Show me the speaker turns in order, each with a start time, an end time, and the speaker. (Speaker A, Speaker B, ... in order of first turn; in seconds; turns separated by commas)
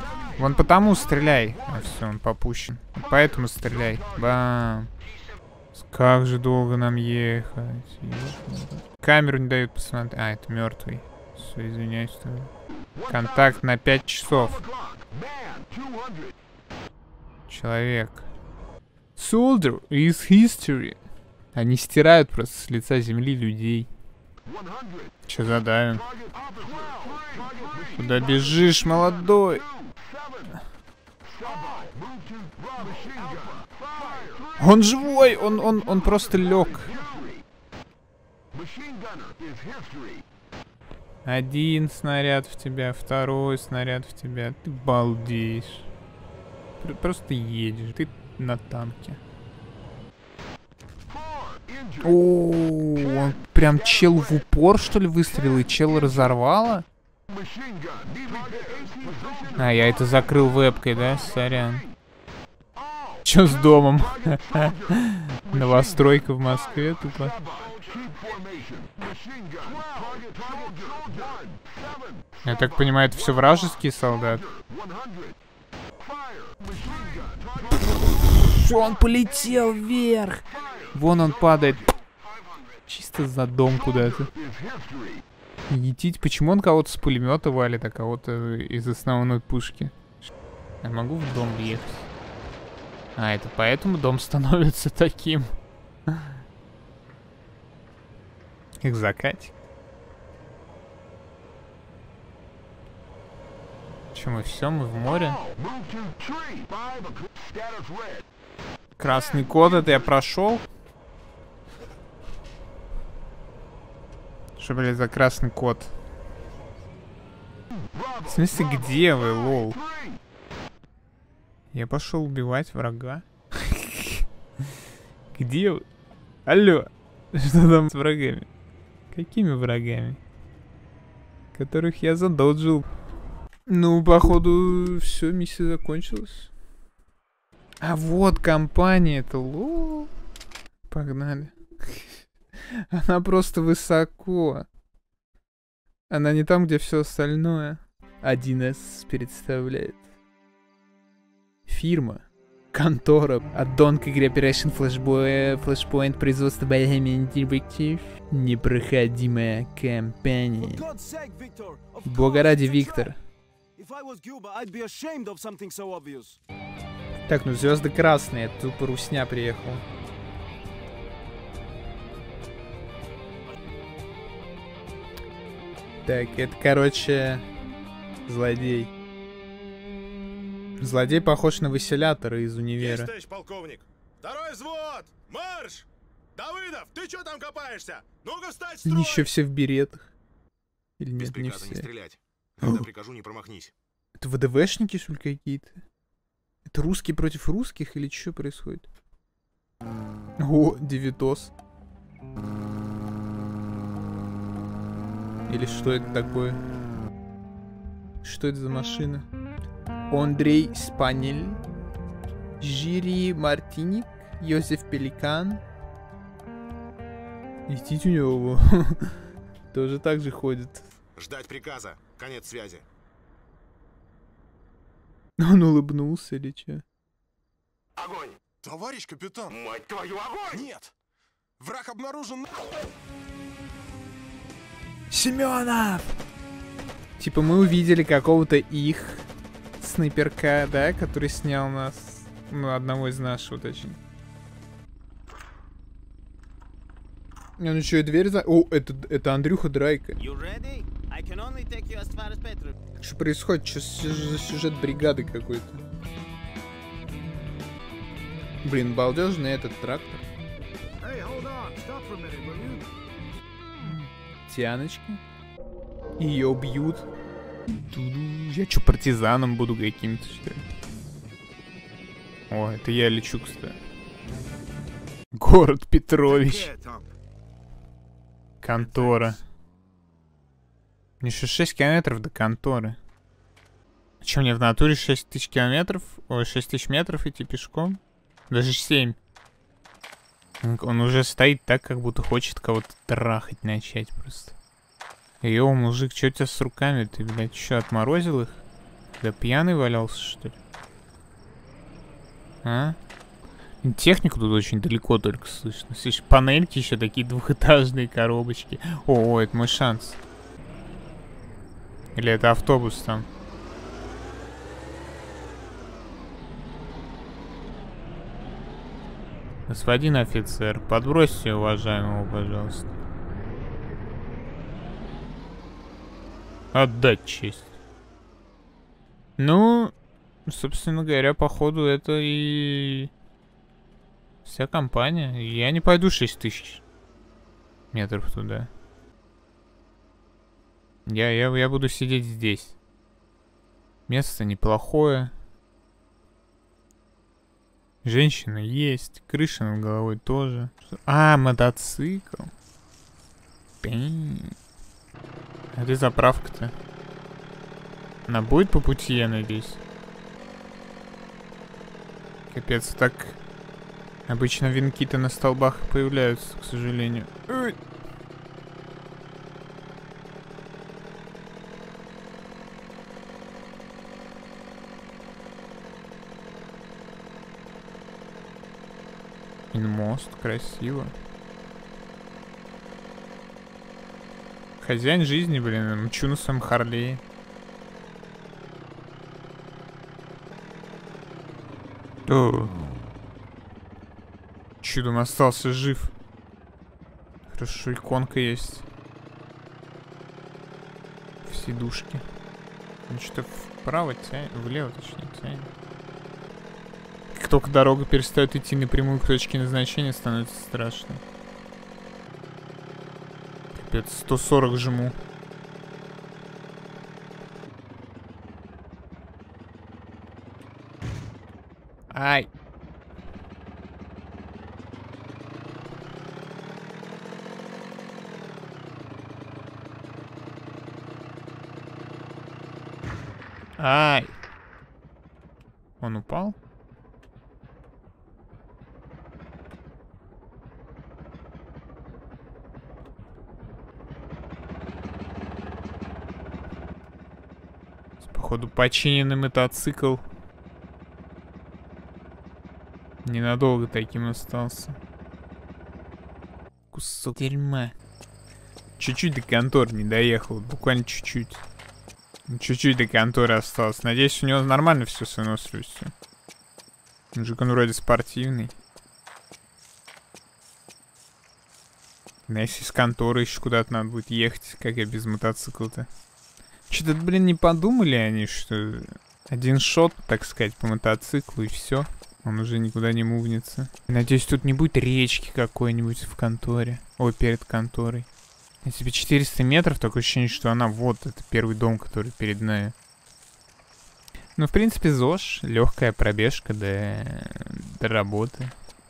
Speaker A: 0.4-4.9, Speaker A: 5.8-12.5, Speaker A: 13.1-14.7, Speaker A: 17.5-18.3, Speaker A: 19.2-21.0, Speaker A: 21.5-23.9, Speaker A: 25.3-26.1, Speaker A: 27.9-29.6, Speaker A: 34.6-37.0, Speaker A: 41.2-45.9, Speaker A: 46.8-49.2, Speaker A: 52.0-56.9, Speaker A: 59.6-61.9, Speaker A: 63.2-67.4, Speaker A: 72.4-74.4, Speaker A: 77.7-81.9, Speaker A: 82.9-84.3, Speaker A: 85.7-90.0, Speaker A: 90.8-92.1, Speaker A: 93.2-95.5, Speaker A: 96.1-96.3, Speaker A: 98.8-99.5, Speaker A: 104.1-105.4, Speaker A: 109.0-110.7, Speaker A: 114.6-115.9, Speaker A: 118.3-119.8, Speaker A: 121.7-124.3, Speaker A: 125.3-125.8, Speaker A: 126.5-128.5, Speaker A: 129.1-130.2, Speaker A: 131.5-132.9, Speaker A: 133.7-136.5, Speaker A: 137.8-140.1, Speaker A: 140.9-142.2, Speaker A: 142.7-144.7, Speaker A: 146.1-150.0, Speaker A: 151.7-160.9, Speaker B: 160.7-163.1, Speaker A: 162.0-163.2, Speaker B: 163.8-166.4, Speaker A: 167.3-169.8, Speaker A: 176.1-177.5, Speaker A: 178.3-178.9, Speaker A: 180.8-183.1, Speaker C: 182.8-189.3, Speaker A: 188.8-190.1, Speaker A: 191.0-191.9, Speaker C: 191.2-193.7, Speaker A: 192.6-192.9, Speaker A: 194.2-195.8, Speaker A: 196.7-198.9, Speaker A: 200.4-201.5, Speaker A: 205.5-206.6, Speaker A: 208.2-209.3, Speaker A: 210.1-211.6, Speaker A: 212.6-215.6, Speaker A: 217.7-219.1, Speaker A: 219.7-220.9, Speaker C: 221.2-222.8, Speaker A: 225.4-226.8, Speaker C: 228.6-229.8, Speaker C: 230.5-230.9, Speaker C: 231.6-232.6, Speaker A: 235.1-236.2, Speaker A: 237.2-239.3, Speaker A: 239.8-244.0, Speaker A: 247.6-250.2, Speaker D: 250.2-252.8, Speaker A: 253.0-255.8, Speaker A: 258.6-260.2, Speaker B: 261.0-262.9, Speaker A: 263.8-265.2, Speaker A: 266.2-267.1, Speaker A: 267.7-270.7, Speaker A: 272.5-273.8, Speaker A: 275.3-276.7, Speaker B: 276.3-277.1, Speaker A: 278.6-279.4, Speaker B: 278.7-279.4, Speaker A: 281.2-283.0, Speaker A: 284.2-289.2, Speaker A: 290.6-294.6, Speaker A: 295.4-298.6, Speaker A: 299.2-300.6, Speaker A: 302.6-303.0, Speaker A: 303.8-310.2, Speaker A: 312.1-313.3, Speaker A: 319.7-322.9, Speaker A: 326.7-327.7, Speaker A: 329.4-329.9, Speaker A: 330.5-333.1, Speaker A: 334.4-336.8, Speaker A: 337.9-338.7, Speaker A: 341.1-342.8, Speaker A: 344.1-345.3, Speaker A: 348.0-352.5, Speaker A: 353.8-354.6, Speaker A: 355.7-356.7, Speaker A: 358.3-359.8, Speaker A: 362.5-363.4, Speaker A: 364.3-367.8, Speaker A: 379.7-381.1, Speaker A: 384.8-387.2, Speaker A: 392.3-392.8, Speaker A: 394.8-396.1, Speaker A: 397.5-398.9, Speaker A: 401.4-402.2, Speaker A: 403.1-405.7, Speaker A: 407.3-411.2, Speaker A: 413.8-415.2, Speaker A: 422.1-422.5, Speaker A: 433.8-434.3, Speaker A: 436.0-436.6, Speaker A: 448.2-450.2, Speaker A: 453.2-455.0, Speaker A: 456.9-458.0, Speaker A: 459.0-461.6, Speaker A: 462.5-466.1, Speaker A: 467.3-468.7, Speaker A: 472.5-476.1, Speaker A: 476.9-488.3, Speaker A: 488.8-492.9, Speaker A: 494.6-498.7